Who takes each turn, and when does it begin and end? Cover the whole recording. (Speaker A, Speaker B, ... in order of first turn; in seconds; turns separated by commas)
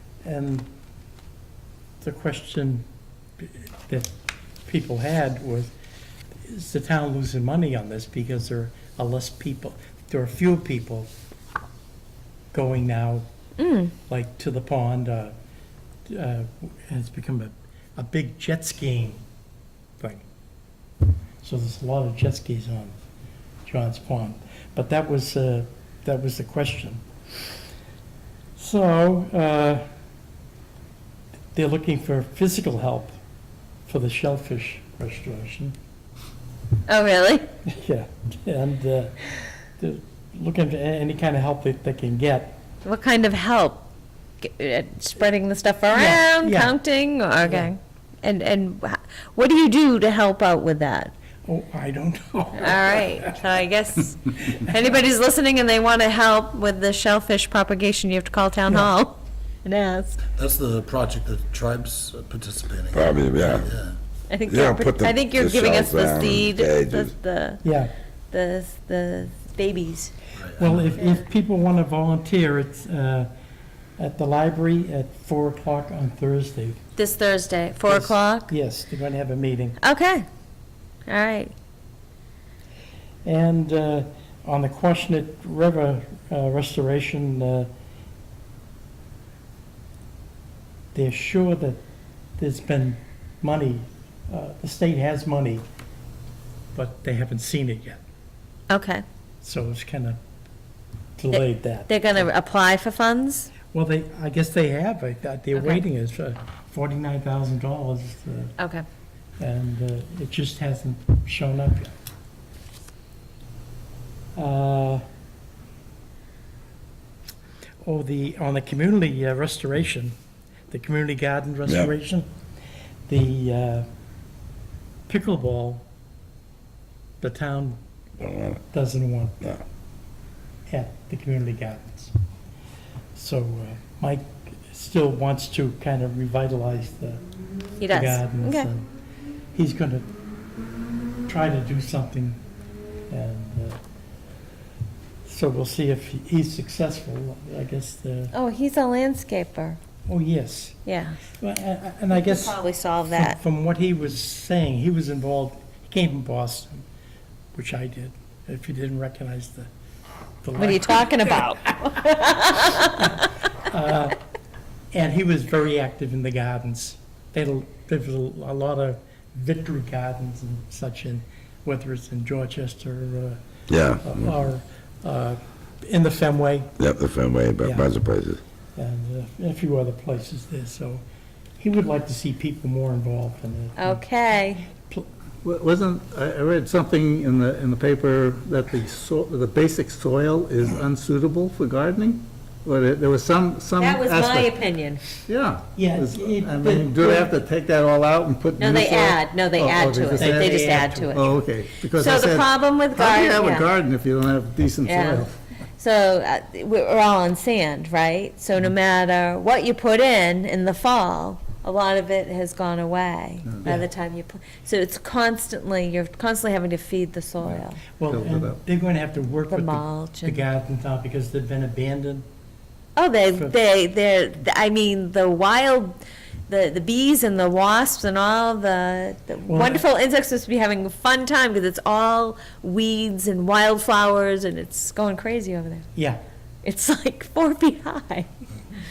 Speaker A: 0.2-0.7, Speaker A: 2.0-2.8, Speaker A: 3.4-4.1, Speaker A: 4.7-5.7, Speaker A: 6.5-11.1, Speaker A: 12.5-13.2, Speaker B: 13.6-13.9, Speaker A: 14.1-15.3, Speaker A: 16.1-19.2, Speaker A: 20.0-20.2, Speaker A: 21.4-22.9, Speaker A: 23.6-27.0, Speaker A: 28.6-29.9, Speaker A: 31.5-33.2, Speaker A: 33.9-35.8, Speaker B: 36.9-37.5, Speaker A: 37.6-39.1, Speaker A: 39.8-42.6, Speaker B: 42.8-43.9, Speaker B: 44.4-51.1, Speaker A: 45.9-46.8, Speaker A: 47.4-47.7, Speaker A: 51.5-53.3, Speaker B: 52.5-60.2, Speaker C: 60.3-64.0, Speaker D: 62.9-63.7, Speaker B: 64.3-67.6, Speaker D: 64.5-67.1, Speaker A: 67.6-67.9, Speaker B: 68.3-70.1, Speaker C: 70.4-70.8, Speaker A: 70.6-73.3, Speaker A: 74.0-76.8, Speaker B: 77.0-78.5, Speaker A: 77.9-79.8, Speaker B: 79.8-80.2, Speaker B: 81.1-81.5, Speaker A: 83.2-87.7, Speaker A: 90.9-91.8, Speaker A: 92.4-95.6, Speaker A: 96.7-98.0, Speaker B: 98.7-99.0, Speaker A: 99.4-100.2, Speaker A: 101.2-102.3, Speaker B: 101.3-103.5, Speaker A: 103.7-108.6, Speaker B: 105.5-105.8, Speaker B: 108.6-108.8, Speaker A: 109.4-111.9, Speaker A: 114.3-115.0, Speaker A: 117.8-120.1, Speaker A: 120.7-122.3, Speaker D: 121.7-121.9, Speaker A: 123.1-123.8, Speaker A: 125.1-125.8, Speaker A: 127.2-127.8, Speaker D: 128.2-128.6, Speaker A: 128.7-129.6, Speaker A: 130.7-132.1, Speaker A: 133.1-137.2, Speaker B: 137.8-138.7, Speaker A: 137.9-138.8, Speaker A: 139.5-140.1, Speaker A: 141.3-142.4, Speaker A: 143.1-143.8, Speaker A: 145.2-148.3, Speaker B: 148.3-149.8, Speaker A: 150.1-150.8, Speaker B: 150.8-151.2, Speaker A: 151.3-156.8, Speaker B: 152.1-153.4, Speaker A: 157.5-159.7, Speaker A: 160.4-161.5, Speaker B: 160.6-163.2, Speaker A: 163.0-164.1, Speaker A: 164.9-173.4, Speaker D: 173.7-174.3, Speaker A: 174.0-176.7, Speaker D: 176.8-178.4, Speaker A: 177.6-177.9, Speaker A: 178.8-181.0, Speaker A: 181.6-184.1, Speaker B: 183.8-184.6, Speaker A: 184.6-185.1, Speaker E: 185.4-194.6, Speaker B: 193.8-195.0, Speaker E: 195.2-205.4, Speaker A: 195.7-197.4, Speaker B: 198.6-201.4, Speaker A: 200.1-201.3, Speaker B: 201.9-203.7, Speaker B: 204.8-205.3, Speaker B: 205.8-217.8, Speaker A: 213.6-213.9, Speaker E: 217.4-218.6, Speaker A: 218.0-222.2, Speaker B: 219.5-220.4, Speaker B: 222.9-235.9, Speaker A: 229.5-229.8, Speaker A: 235.9-236.2, Speaker B: 236.6-238.3